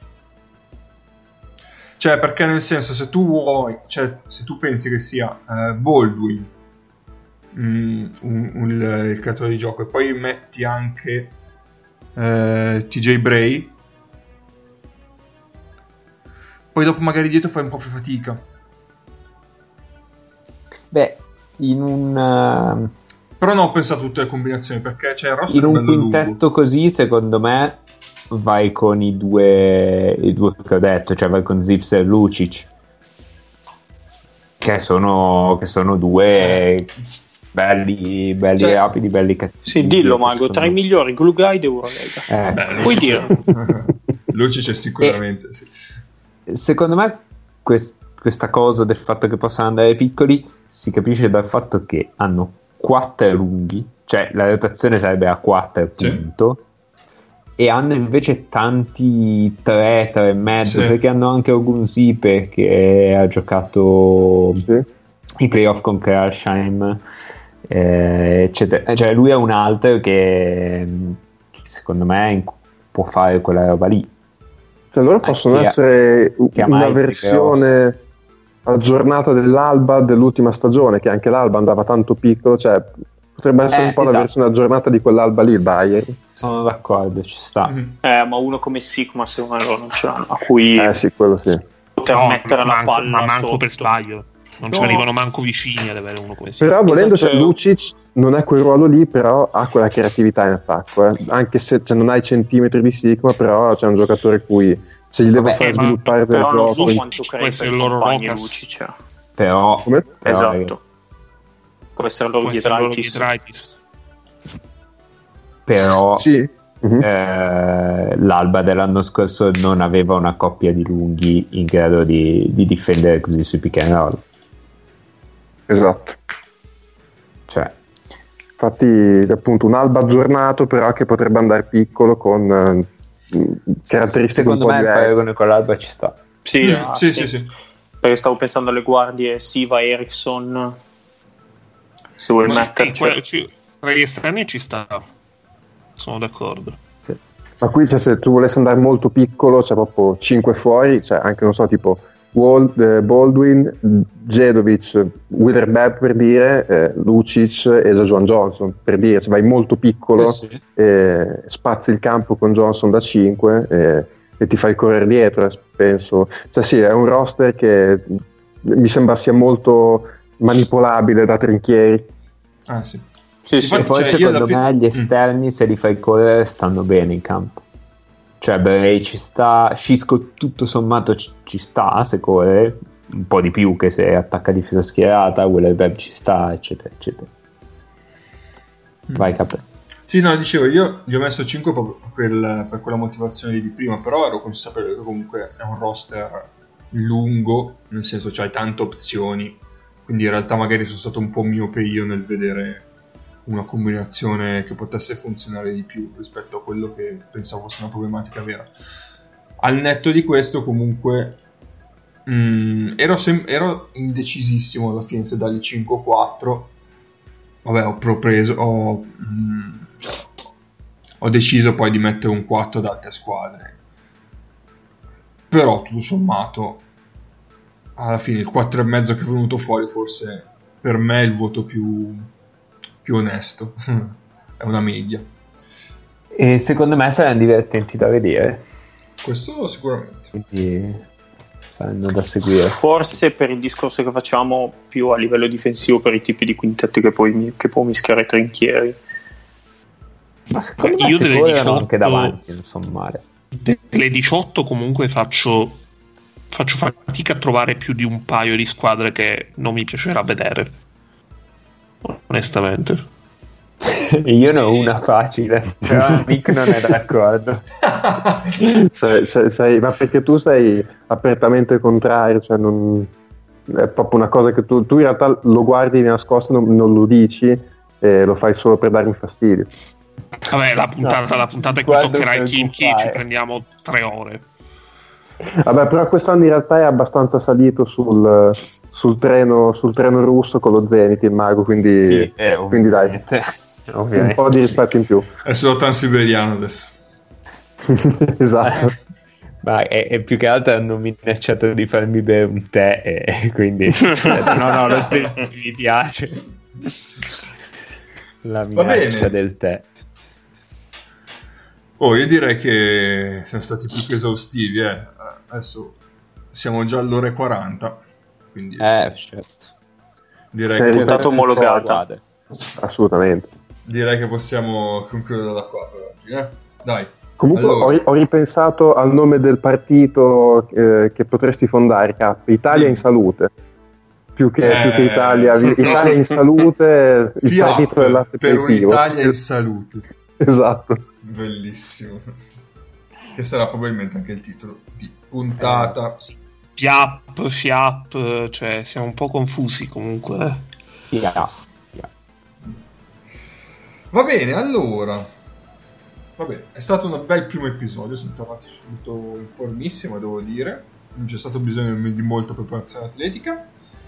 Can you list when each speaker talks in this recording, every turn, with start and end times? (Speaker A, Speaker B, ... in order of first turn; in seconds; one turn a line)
Speaker A: 2.0-6.5
Speaker A: 7.5-11.3
Speaker A: 12.2-13.7
Speaker A: 16.7-18.4
Speaker B: 20.9-22.9
Speaker A: 23.4-26.4
Speaker B: 25.5-32.7
Speaker B: 34.6-36.9
Speaker A: 36.3-36.7
Speaker B: 37.5-40.8
Speaker C: 39.6-43.3
Speaker B: 42.3-43.0
Speaker A: 42.5-45.8
Speaker B: 46.5-56.6
Speaker A: 56.0-56.2
Speaker B: 57.6-64.7
Speaker A: 60.6-61.0
Speaker B: 65.4-67.0
Speaker B: 67.7-74.1
Speaker D: 74.9-78.0
Speaker B: 75.2-75.8
Speaker B: 76.5-77.7
Speaker D: 78.7-86.2
Speaker B: 83.7-84.3
Speaker B: 86.4-87.7
Speaker A: 87.6-88.0
Speaker C: 88.0-91.0
Speaker D: 90.8-91.6
Speaker C: 92.0-93.9
Speaker E: 92.0-96.8
Speaker A: 94.7-95.0
Speaker D: 96.6-107.0
Speaker C: 96.8-97.6
Speaker B: 105.3-105.8
Speaker E: 105.4-108.6
Speaker C: 106.3-108.9
Speaker B: 109.4-110.7
Speaker C: 110.2-110.8
Speaker C: 112.0-113.3
Speaker E: 112.4-113.8
Speaker B: 115.7-116.2
Speaker D: 116.1-117.1
Speaker B: 117.0-124.2
Speaker D: 125.7-126.2
Speaker B: 127.5-127.7
Speaker D: 128.6-135.2
Speaker B: 133.9-136.2
Speaker C: 136.4-137.4
Speaker A: 136.6-137.5
Speaker C: 138.0-140.8
Speaker C: 142.2-143.2
Speaker E: 142.4-145.1
Speaker E: 146.0-146.8
Speaker D: 147.6-172.1
Speaker B: 160.2-160.6
Speaker A: 172.7-173.1
Speaker C: 173.5-173.8
Speaker A: 173.6-175.1
Speaker B: 173.7-177.6
Speaker B: 178.4-187.3
Speaker A: 189.1-189.3
Speaker B: 189.1-189.6
Speaker A: 190.1-202.9
Speaker A: 203.4-208.7
Speaker A: 209.6-211.4
Speaker A: 212.2-216.7
Speaker A: 217.6-220.3
Speaker A: 221.2-223.8
Speaker A: 225.5-226.8
Speaker A: 228.0-232.3
Speaker A: 233.0-235.3
Speaker B: 236.3-238.6
Speaker A: 239.2-240.3
Speaker B: 240.3-241.1
Speaker B: 241.7-242.8
Speaker C: 242.7-249.0
Speaker B: 250.5-253.2
Speaker E: 250.8-252.3
Speaker E: 253.5-255.8
Speaker E: 256.5-260.8
Speaker E: 262.0-263.1
Speaker B: 263.8-267.6
Speaker A: 267.8-268.6
Speaker B: 268.6-268.9
Speaker D: 268.9-273.1
Speaker D: 273.7-279.7
Speaker E: 280.5-284.4
Speaker B: 281.7-283.2
Speaker D: 285.6-293.1
Speaker B: 292.0-294.4
Speaker D: 294.1-295.3
Speaker A: 295.4-296.9
Speaker D: 297.9-298.9
Speaker B: 299.6-306.4
Speaker A: 304.3-305.3
Speaker B: 308.4-309.9
Speaker A: 308.7-309.3
Speaker A: 312.0-316.0
Speaker A: 316.5-318.0
Speaker A: 318.5-318.9
Speaker B: 318.8-319.7
Speaker A: 320.5-321.2
Speaker D: 320.7-321.7
Speaker B: 320.8-322.2
Speaker C: 320.9-322.0
Speaker D: 322.8-323.5
Speaker A: 323.8-328.0
Speaker D: 327.4-333.5
Speaker A: 332.7-333.0
Speaker D: 334.4-339.3
Speaker A: 334.6-336.4
Speaker A: 337.4-340.0
Speaker D: 340.4-341.0
Speaker A: 341.2-342.3
Speaker A: 343.4-346.2
Speaker E: 346.8-350.6
Speaker B: 351.1-352.1
Speaker A: 354.1-355.3
Speaker A: 356.4-363.7